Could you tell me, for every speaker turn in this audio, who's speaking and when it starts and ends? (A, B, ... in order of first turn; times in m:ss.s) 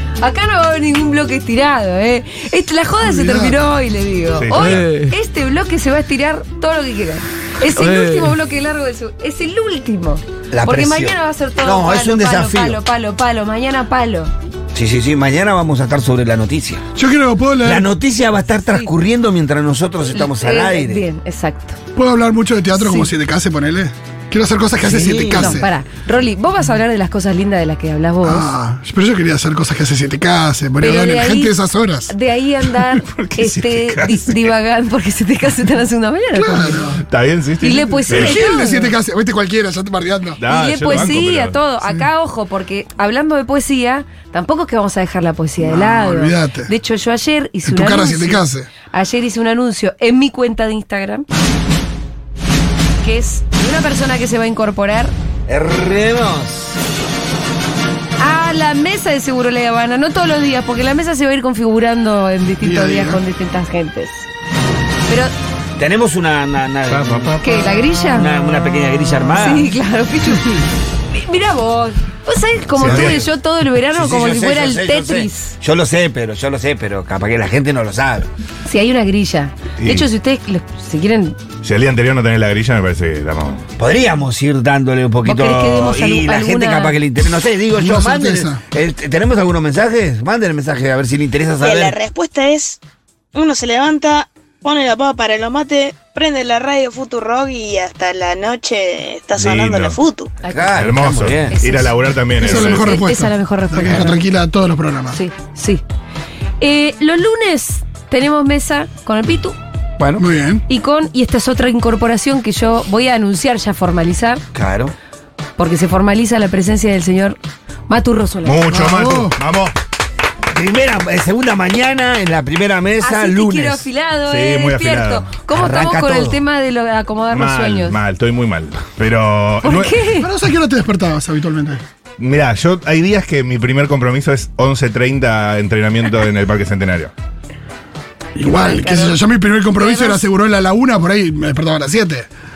0:00.2-0:14.3 A
0:03.0-0:03.6 B
0:04.4-0:05.0 C
0:10.5-0:12.8 D
0:14.7-0:16.8 D
0:17.0-0:17.9 B
0:17.6-0:21.0 D
0:20.1-0:21.8 A
0:22.0-0:25.7 B
0:22.8-0:23.1 A
0:24.8-0:25.6 D
0:25.4-0:28.5 A
0:28.2-0:32.1 B
0:30.8-0:31.6 A
0:32.1-0:36.8 A
0:33.0-0:34.5 C
0:36.3-0:37.0 B
0:37.0-0:38.6 C
0:37.6-0:38.9 A
0:38.1-0:40.4 B
0:40.4-0:41.6 C
0:40.5-0:51.2 A
0:45.6-0:46.7 B
0:47.6-0:48.7 B
0:53.0-0:55.1 A
0:55.5-0:56.8 D
0:58.2-1:04.3 A
1:02.6-1:03.2 B
1:05.1-1:05.3 A
1:05.8-1:07.5 D
1:07.4-1:08.3 A
1:08.2-1:09.7 D
1:09.4-1:10.5 A
1:11.1-1:15.6 A
1:12.8-1:13.2 C
1:12.8-1:13.3 D
1:13.9-1:18.3 D
1:18.7-1:21.4 A
1:19.8-1:20.1 C
1:21.6-1:23.6 C
1:23.8-1:32.0 D
1:25.2-1:27.0 A
1:27.8-1:28.6 B
1:31.6-1:32.8 E
1:33.3-1:40.3 E
1:39.4-1:40.0 C
1:40.4-1:40.7 A
1:40.5-1:41.6 D
1:40.7-1:43.0 C
1:41.5-1:44.2 A
1:42.3-1:45.2 B
1:45.1-1:45.8 A
1:46.6-1:49.6 A
1:50.0-1:50.2 D
1:50.2-1:50.6 B
1:50.7-1:54.4 A
1:54.5-1:54.9 D
1:55.6-1:57.4 A
1:57.9-1:58.6 A
1:58.4-1:59.7 C
1:58.7-1:59.4 B
2:00.5-2:03.9 D
2:03.0-2:08.0 A
2:04.3-2:05.3 C
2:05.5-2:06.4 D
2:07.3-2:10.0 C
2:09.6-2:10.3 A
2:10.2-2:11.8 B
2:12.2-2:17.1 C
2:18.4-2:22.3 B
2:18.5-2:19.2 A
2:19.7-2:20.2 A